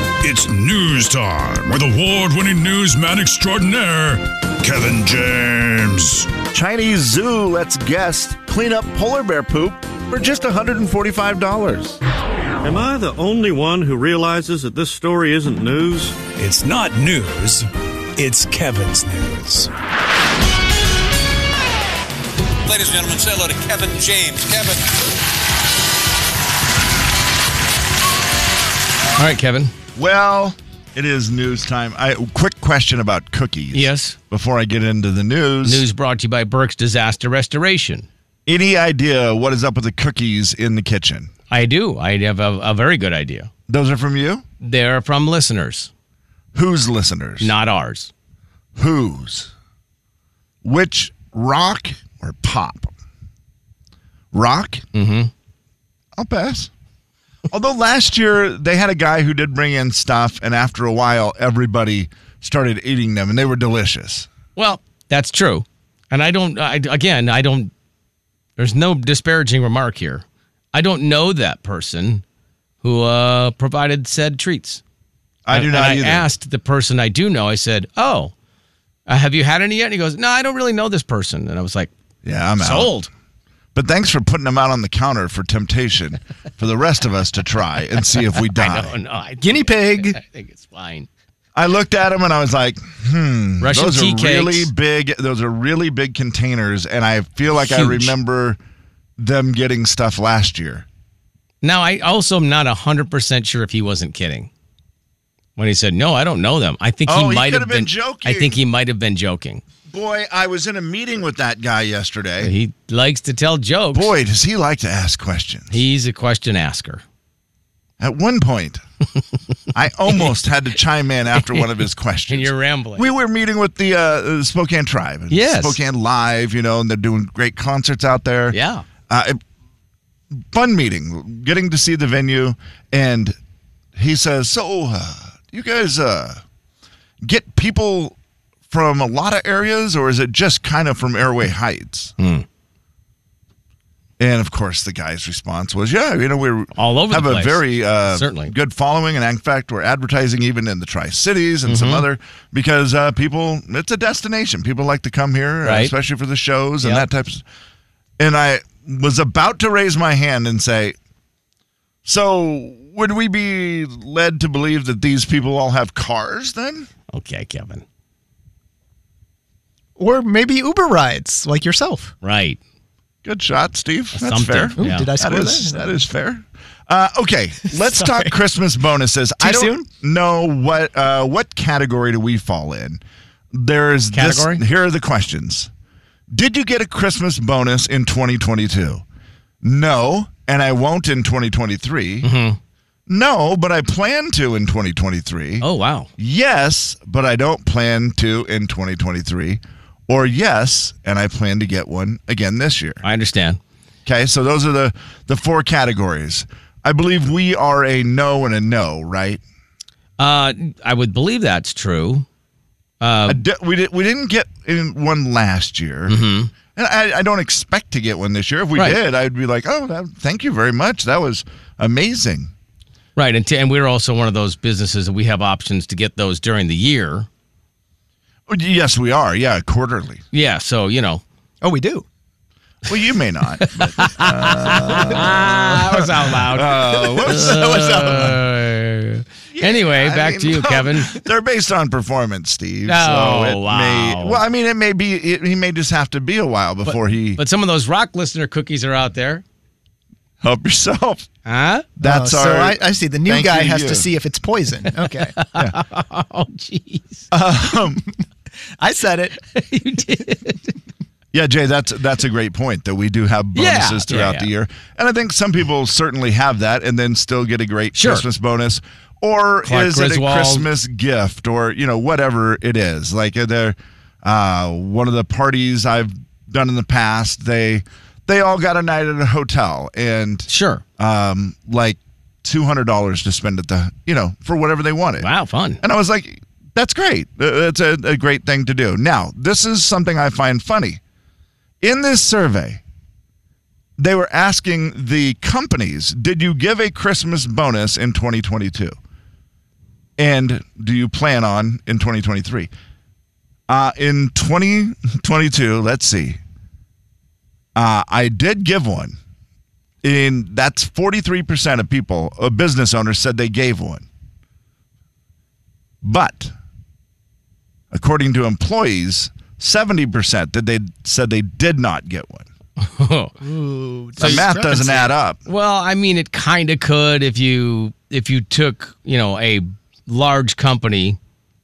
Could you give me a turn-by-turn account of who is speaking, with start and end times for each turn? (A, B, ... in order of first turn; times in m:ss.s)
0:00.2-0:06.3 A
0:06.5-0:12.0 B
0:12.6-0:16.2 C
0:16.3-0:19.7 D
0:22.6-0:24.9 E
0:29.2-0:29.7 F
0:29.9-0:35.8 B
0:33.7-0:34.2 F
0:35.6-0:38.1 F
0:38.4-0:41.3 B
0:41.5-0:43.5 F
0:43.7-0:44.4 B
0:44.6-0:45.9 F
0:46.5-0:47.5 B
0:47.4-0:48.1 F
0:48.8-0:49.5 B
0:50.6-0:52.9 B
0:54.3-0:54.8 B
0:54.9-0:55.3 F
0:56.2-0:56.7 B
0:57.5-1:04.3 B
1:04.6-1:07.7 F
1:08.6-1:12.2 F
1:12.8-1:14.8 F
1:15.4-1:16.3 B
1:15.5-1:18.3 F
1:19.1-1:21.9 F
1:22.2-1:22.9 B
1:22.6-1:23.1 F
1:23.7-1:29.0 B
1:28.4-1:31.1 F
1:29.4-1:30.2 G
1:31.5-1:38.6 B
1:33.6-1:34.7 F
1:37.5-1:38.1 F
1:39.2-1:40.8 B
1:41.6-1:44.5 F
1:45.6-1:49.6 F
1:47.0-1:48.6 B
1:49.9-1:52.5 B
1:52.4-1:54.1 F
1:53.9-1:55.8 B
1:55.7-1:57.0 F
1:58.0-1:58.8 B
1:59.7-2:08.6 B
2:02.3-2:03.1 F
2:05.3-2:05.8 F
2:08.5-2:08.8 F
2:09.1-2:09.4 B
2:10.5-2:13.4 B
2:14.0-2:16.4 B
2:17.2-2:18.2 B
2:18.7-2:22.1 B
2:22.2-2:22.4 F
2:24.2-2:37.4 B
2:26.7-2:28.5 F
2:31.7-2:32.0 F
2:35.6-2:35.9 F
2:38.2-2:41.0 B
2:42.0-2:46.9 B
2:47.1-2:47.8 F
2:50.0-2:52.1 G
2:52.2-2:52.6 F
2:53.2-3:03.0 B
2:54.1-2:55.1 F
2:54.8-2:56.0 G
2:57.8-2:58.3 G
2:59.4-2:59.9 G
3:03.5-3:05.7 B
3:04.1-3:04.6 F
3:06.3-3:09.0 B
3:09.6-3:12.3 B
3:12.2-3:12.6 F
3:13.1-3:15.6 B
3:15.6-3:16.1 F
3:16.2-3:23.0 B
3:23.0-3:23.6 F
3:24.0-3:29.4 B
3:30.2-3:32.2 F
3:33.0-3:33.4 F
3:33.3-3:36.2 B
3:36.1-3:36.5 F
3:36.7-3:42.5 B
3:43.2-3:47.3 F
3:48.5-3:50.2 B
3:50.3-3:51.2 F
3:51.6-3:52.0 G
3:52.8-3:58.1 B
3:53.6-4:01.2 F
3:56.0-3:58.4 G
3:59.5-4:07.4 B
4:02.8-4:04.4 F
4:06.8-4:09.4 F
4:10.4-4:11.3 B
4:11.4-4:11.9 F
4:12.0-4:14.1 B
4:12.0-4:15.4 G
4:15.4-4:17.3 F
4:17.3-4:18.1 G
4:18.8-4:19.4 G
4:19.5-4:20.7 F
4:21.3-4:45.3 B
4:23.5-4:24.5 F
4:27.9-4:28.2 F
4:29.6-4:30.7 F
4:40.5-4:40.8 F
4:45.2-4:45.8 F
4:45.8-4:51.0 B
4:51.8-4:52.8 B
4:54.0-4:59.0 B
5:00.2-5:02.7 B
5:03.7-5:06.4 B
5:07.7-5:09.2 B
5:10.0-5:14.0 B
5:16.0-5:16.5 B
5:17.9-5:22.5 B
5:22.8-5:23.4 F
5:23.4-5:25.0 G
5:24.2-5:24.5 F
5:24.2-5:25.4 B
5:25.4-5:31.2 F